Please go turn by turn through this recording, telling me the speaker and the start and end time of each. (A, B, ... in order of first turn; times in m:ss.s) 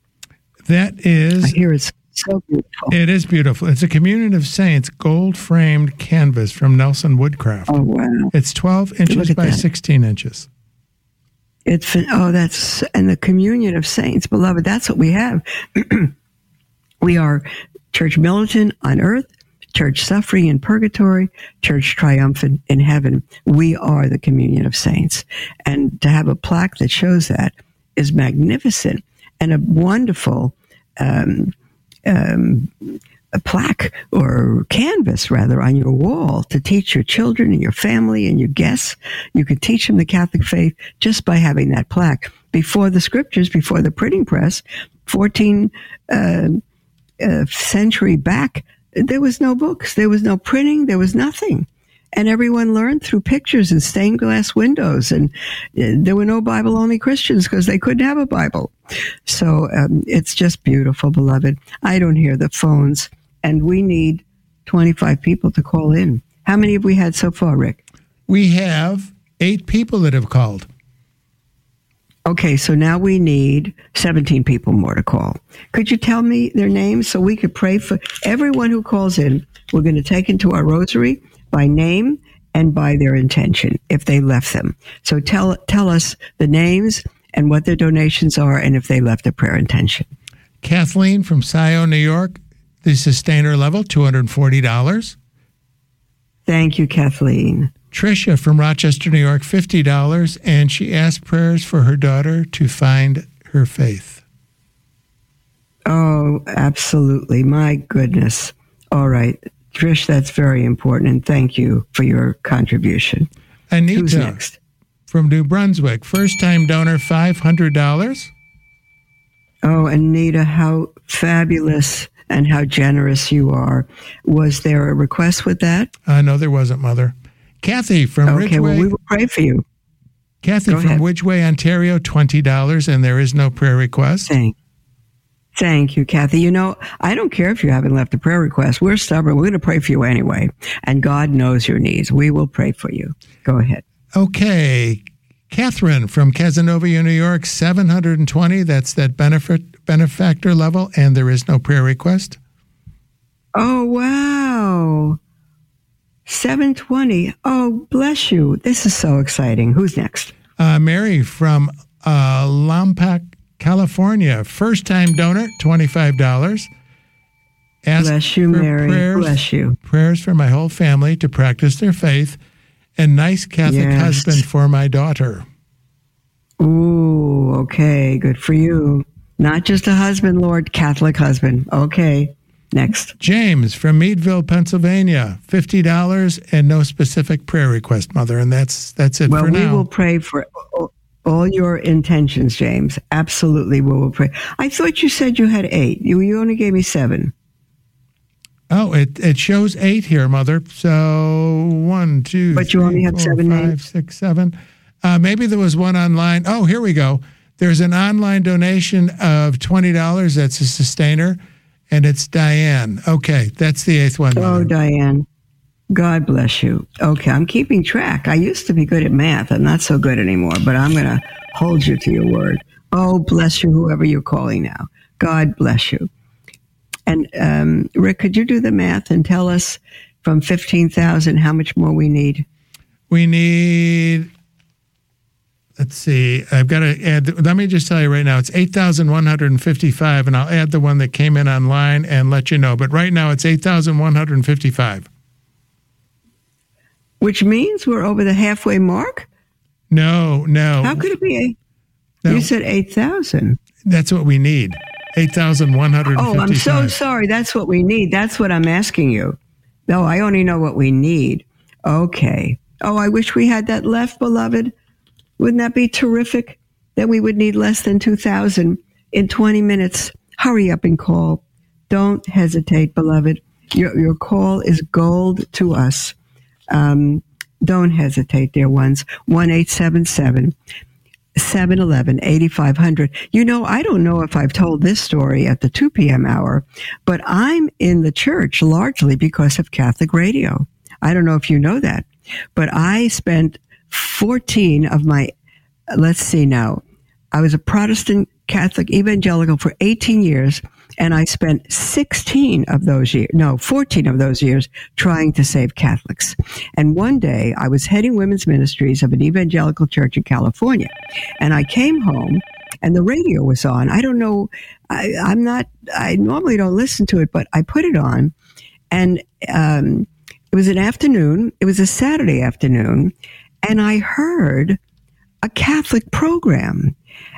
0:00.6-0:01.6 A
0:01.4-0:03.0 B
0:02.9-0:07.7 A
0:07.7-0:08.3 B
0:08.3-0:10.5 A
0:09.1-0:09.6 B
0:11.7-0:16.1 B
0:17.0-0:31.5 B
0:32.1-0:46.6 B
0:47.2-0:58.7 B
0:59.3-1:07.8 B
1:08.3-1:10.7 A
1:12.3-1:30.1 B
1:30.6-1:35.2 A
1:36.5-1:37.7 B
1:37.9-1:44.2 A
1:45.9-1:53.3 B
1:53.7-1:54.4 A
1:53.9-1:54.6 B
1:55.1-1:58.3 A
1:59.6-2:05.9 B
2:06.1-2:08.9 A
2:08.3-2:09.6 B
2:10.4-2:14.3 A
2:10.7-2:11.0 B
2:14.3-2:14.6 B
2:15.6-2:23.8 B
2:24.2-2:32.4 A
2:33.6-2:35.2 B
2:36.3-2:40.3 B
2:40.6-2:46.7 A
2:47.9-2:52.4 A
2:48.0-2:49.8 B
2:53.0-2:55.5 A
2:53.6-2:54.4 B
2:56.6-3:03.1 B
3:03.2-3:09.8 A
3:09.3-3:17.3 B
3:18.7-3:31.4 A
3:22.5-3:23.8 B
3:31.9-3:34.7 A
3:34.4-3:35.3 B
3:35.9-3:46.1 B
3:47.1-3:52.5 B
3:53.1-3:54.3 A
3:55.8-4:05.1 A
4:07.2-4:09.3 B
4:09.9-4:11.0 A
4:10.8-4:11.6 B
4:12.3-4:13.6 B
4:13.8-4:16.9 A
4:16.1-4:24.7 B
4:25.4-4:36.2 B
4:36.7-4:40.6 B
4:41.4-4:55.3 B
4:55.9-5:18.3 B
5:18.9-5:24.8 B
5:25.4-5:27.0 B